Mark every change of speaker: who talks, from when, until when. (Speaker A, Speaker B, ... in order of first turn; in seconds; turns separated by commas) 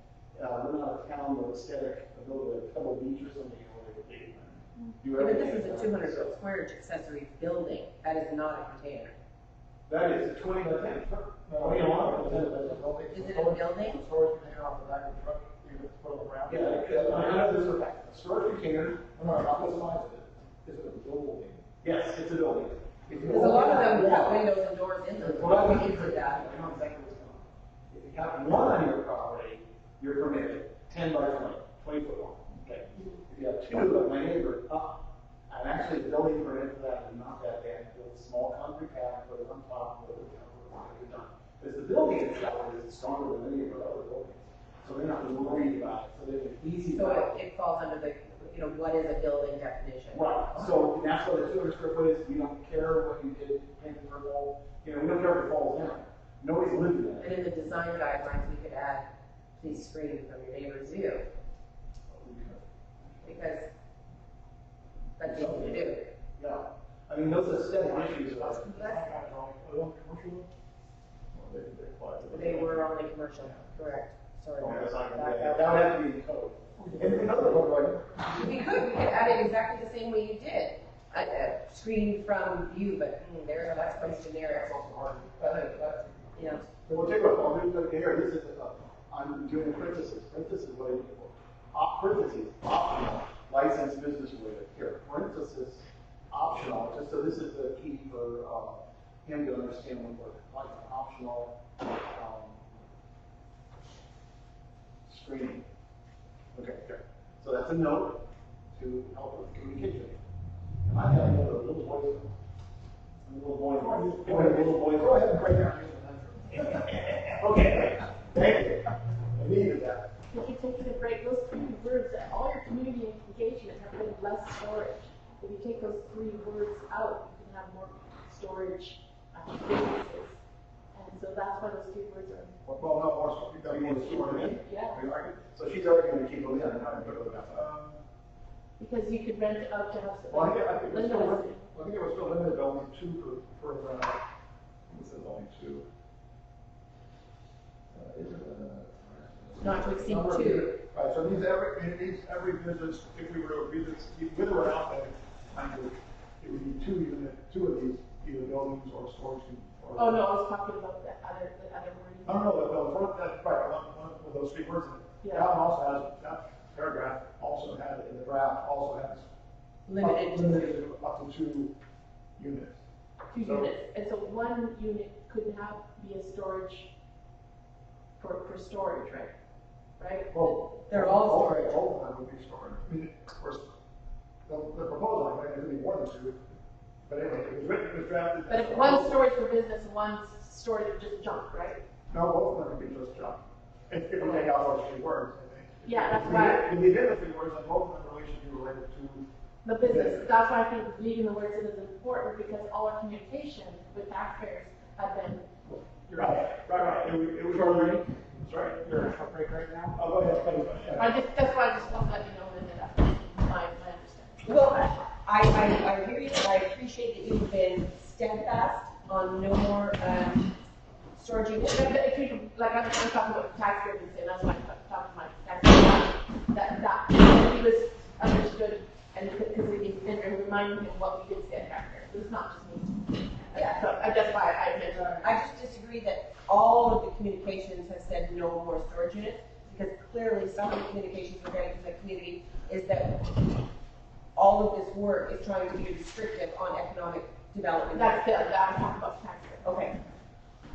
Speaker A: 0.3-6.3, Speaker B: 5.2-9.1, Speaker A: 9.9-12.8, Speaker C: 11.5-17.7, Speaker B: 13.1-14.0, Speaker A: 16.4-20.1, Speaker C: 19.1-21.6, Speaker A: 21.8-24.4, Speaker C: 23.1-23.4, Speaker B: 23.3-26.4, Speaker A: 25.1-47.4, Speaker B: 46.9-50.7, Speaker A: 50.1-57.4, Speaker B: 57.2-61.3, Speaker C: 62.2-62.6, Speaker B: 63.2-63.7, Speaker B: 65.2-66.1, Speaker A: 65.2-68.7, Speaker C: 67.8-70.5, Speaker B: 68.7-69.0, Speaker C: 71.3-73.6, Speaker B: 72.3-75.6, Speaker A: 74.6-78.3, Speaker C: 76.8-78.4, Speaker B: 78.3-84.7, Speaker A: 83.8-84.1, Speaker C: 84.5-87.3, Speaker A: 84.6-86.0, Speaker B: 86.3-86.7, Speaker A: 86.8-101.6, Speaker A: 102.1-102.6, Speaker A: 105.0-105.7, Speaker A: 106.5-110.2, Speaker A: 110.8-112.3, Speaker A: 113.2-115.2, Speaker C: 113.8-117.0, Speaker A: 116.5-120.1, Speaker D: 120.3-130.4, Speaker D: 130.9-132.6, Speaker C: 132.6-134.6, Speaker A: 133.6-137.6, Speaker D: 134.6-135.0, Speaker C: 137.0-138.0, Speaker D: 138.8-141.7, Speaker C: 140.3-144.2, Speaker C: 144.9-145.9, Speaker C: 147.9-149.9, Speaker B: 149.6-150.8, Speaker D: 149.7-150.6, Speaker C: 150.5-160.2, Speaker D: 159.9-162.4, Speaker C: 162.2-169.3, Speaker D: 165.2-165.5, Speaker B: 169.9-170.8, Speaker C: 170.0-171.7, Speaker C: 172.4-172.8, Speaker D: 173.3-176.9, Speaker C: 173.3-173.7, Speaker D: 178.2-179.3, Speaker D: 180.0-180.6, Speaker C: 180.3-183.7, Speaker B: 180.9-181.8, Speaker C: 184.5-186.5, Speaker C: 187.1-189.2, Speaker D: 188.5-191.8, Speaker C: 192.1-199.2, Speaker D: 194.2-194.5, Speaker D: 195.8-196.6, Speaker D: 199.6-206.5, Speaker C: 199.8-200.3, Speaker C: 206.2-209.1, Speaker A: 207.5-210.0, Speaker C: 209.9-211.1, Speaker D: 210.9-214.9, Speaker B: 214.4-220.5, Speaker B: 221.1-222.0, Speaker D: 221.7-235.2, Speaker B: 233.5-234.1, Speaker B: 235.1-243.6, Speaker B: 244.3-248.4, Speaker D: 247.9-249.8, Speaker B: 249.6-250.0